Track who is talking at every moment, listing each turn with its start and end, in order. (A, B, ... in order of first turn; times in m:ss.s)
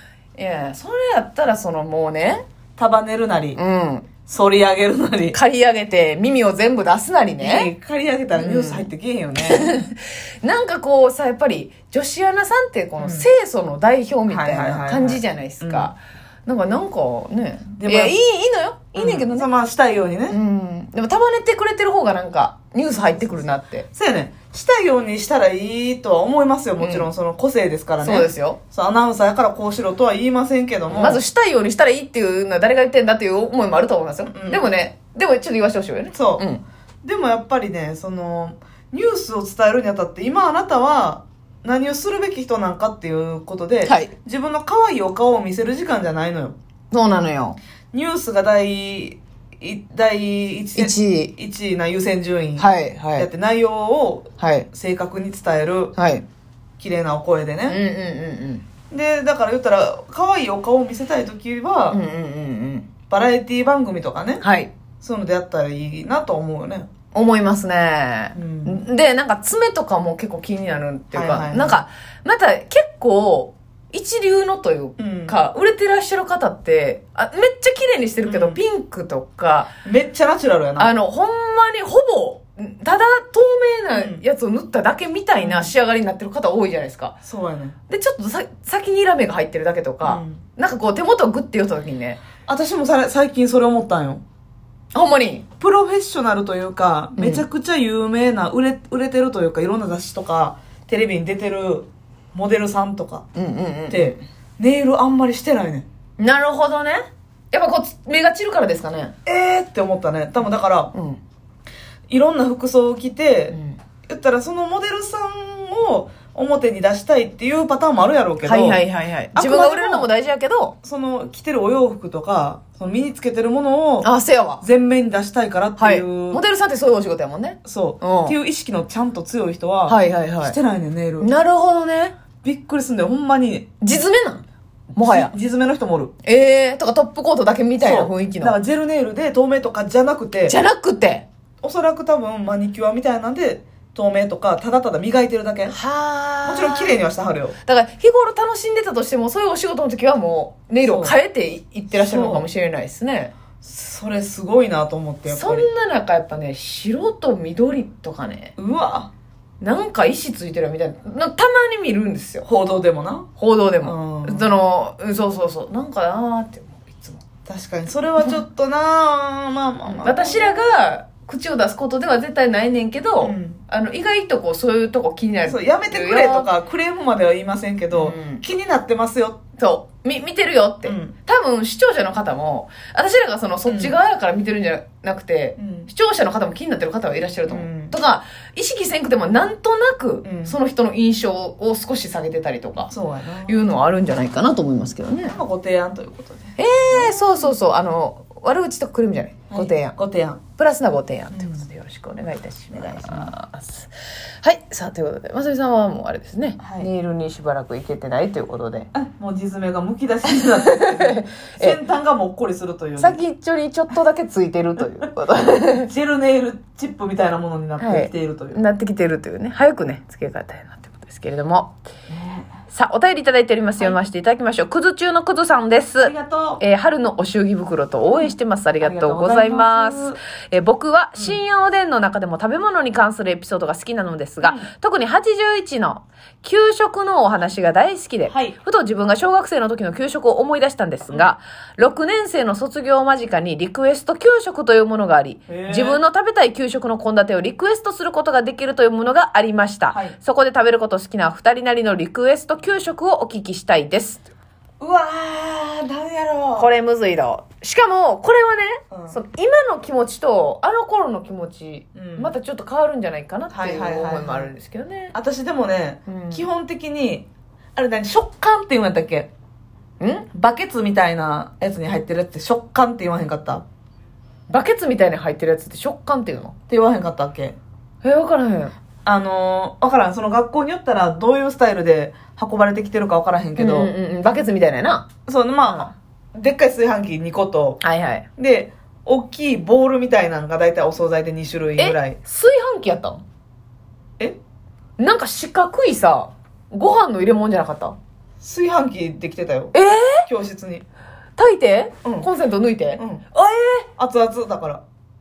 0:00.4-0:02.4 A
0:02.8-0:03.6 B
0:03.6-0:04.1 A
0:04.2-0:05.4 B
0:05.3-0:07.7 A
0:07.4-0:09.8 B
0:08.3-0:19.5 A
0:13.0-0:13.3 B
0:14.3-0:15.9 B
0:17.8-0:18.2 B
0:18.9-0:20.4 B
0:20.3-0:23.9 A
0:23.1-0:31.2 B
0:26.8-0:27.1 A
0:28.0-0:28.6 A
0:30.9-0:36.6 A
0:34.3-0:34.7 B
0:36.1-0:36.4 B
0:37.0-0:46.6 B
0:43.8-0:44.1 A
0:46.9-0:47.6 A
0:47.9-0:55.9 B
0:50.7-0:51.3 A
0:52.6-0:53.3 A
0:54.4-0:54.7 A
0:56.0-0:56.2 A
0:56.8-0:57.8 B
0:57.7-0:58.6 A
0:58.9-1:02.0 B
1:01.9-1:02.9 A
1:03.1-1:04.4 B
1:04.4-1:04.7 A
1:05.0-1:06.9 B
1:07.1-1:19.7 A
1:08.3-1:08.8 B
1:11.1-1:11.8 B
1:15.0-1:15.4 B
1:18.2-1:18.6 B
1:19.8-1:20.9 B
1:20.8-1:27.2 A
1:23.9-1:24.2 B
1:25.4-1:25.7 B
1:27.2-1:27.8 B
1:27.9-1:32.2 A
1:30.0-1:30.4 B
1:32.4-1:34.2 B
1:34.9-1:35.4 A
1:35.6-1:43.2 B
1:37.2-1:37.4 A
1:43.3-1:44.2 A
1:43.9-1:45.8 B
1:46.2-1:49.1 A
1:49.2-1:50.9 B
1:50.9-1:51.2 A
1:52.1-1:53.6 B
1:53.5-1:53.8 A
1:54.1-2:00.1 B
1:58.4-2:00.8 A
2:00.8-2:04.1 B
2:04.0-2:04.6 A
2:04.6-2:06.4 B
2:05.8-2:08.4 A
2:07.6-2:11.3 B
2:09.9-2:10.6 A
2:11.2-2:12.1 A
2:12.4-2:13.8 B
2:13.8-2:14.4 A
2:14.9-2:15.3 A
2:15.0-2:16.1 B
2:16.2-2:18.6 A
2:17.8-2:20.6 B
2:20.5-2:21.2 A
2:21.6-2:25.8 B
2:25.7-2:26.9 A
2:26.4-2:27.6 B
2:27.6-2:33.3 A
2:30.8-2:31.2 B
2:31.9-2:32.4 B
2:33.6-2:35.7 B
2:35.3-2:38.5 A
2:38.6-2:39.1 B
2:39.6-2:42.4 A
2:42.4-2:43.3 B
2:43.4-2:47.2 A
2:43.8-2:44.5 B
2:47.4-2:50.6 B
2:49.8-2:56.5 A
2:53.2-2:53.6 B
2:55.4-2:59.4 B
2:57.9-2:58.4 A
2:59.6-3:12.9 A
3:00.8-3:01.1 B
3:03.7-3:04.0 B
3:05.6-3:05.9 B
3:07.5-3:07.9 B
3:10.2-3:10.6 B
3:12.9-3:13.6 B
3:13.4-3:15.3 A
3:15.2-3:17.5 B
3:16.6-3:20.0 A
3:19.5-3:20.4 B
3:20.6-3:23.9 A
3:21.3-3:21.7 B
3:22.7-3:23.3 B
3:24.4-3:28.9 A
3:26.6-3:26.9 B
3:28.9-3:33.2 B
3:30.3-3:31.8 A
3:33.0-3:35.9 A
3:35.8-3:38.6 B
3:37.8-3:41.7 A
3:42.1-3:42.5 B
3:42.7-4:14.2 A
3:46.0-3:46.6 B
3:48.1-3:50.2 B
3:54.4-3:54.7 B
3:58.3-3:58.6 B
4:05.5-4:06.0 B
4:09.9-4:10.2 B
4:14.8-4:16.7 B
4:16.6-4:25.1 A
4:18.9-4:19.2 B
4:21.9-4:22.3 B
4:23.5-4:24.5 B
4:25.1-4:29.3 B
4:26.1-4:26.4 A
4:30.0-4:30.3 A
4:30.3-4:33.6 B
4:34.5-4:36.5 A
4:36.7-4:37.6 B
4:38.0-4:38.7 A
4:39.0-4:43.9 B
4:43.6-4:45.1 A
4:45.3-4:47.8 B
4:47.8-4:48.2 A
4:48.4-4:52.2 B
4:51.8-4:53.2 A
4:55.0-4:58.0 A
4:58.4-4:59.7 B
4:59.7-5:00.3 A
5:00.3-5:00.8 B
5:01.4-5:03.9 A
5:03.0-5:03.2 B
5:04.0-5:04.8 B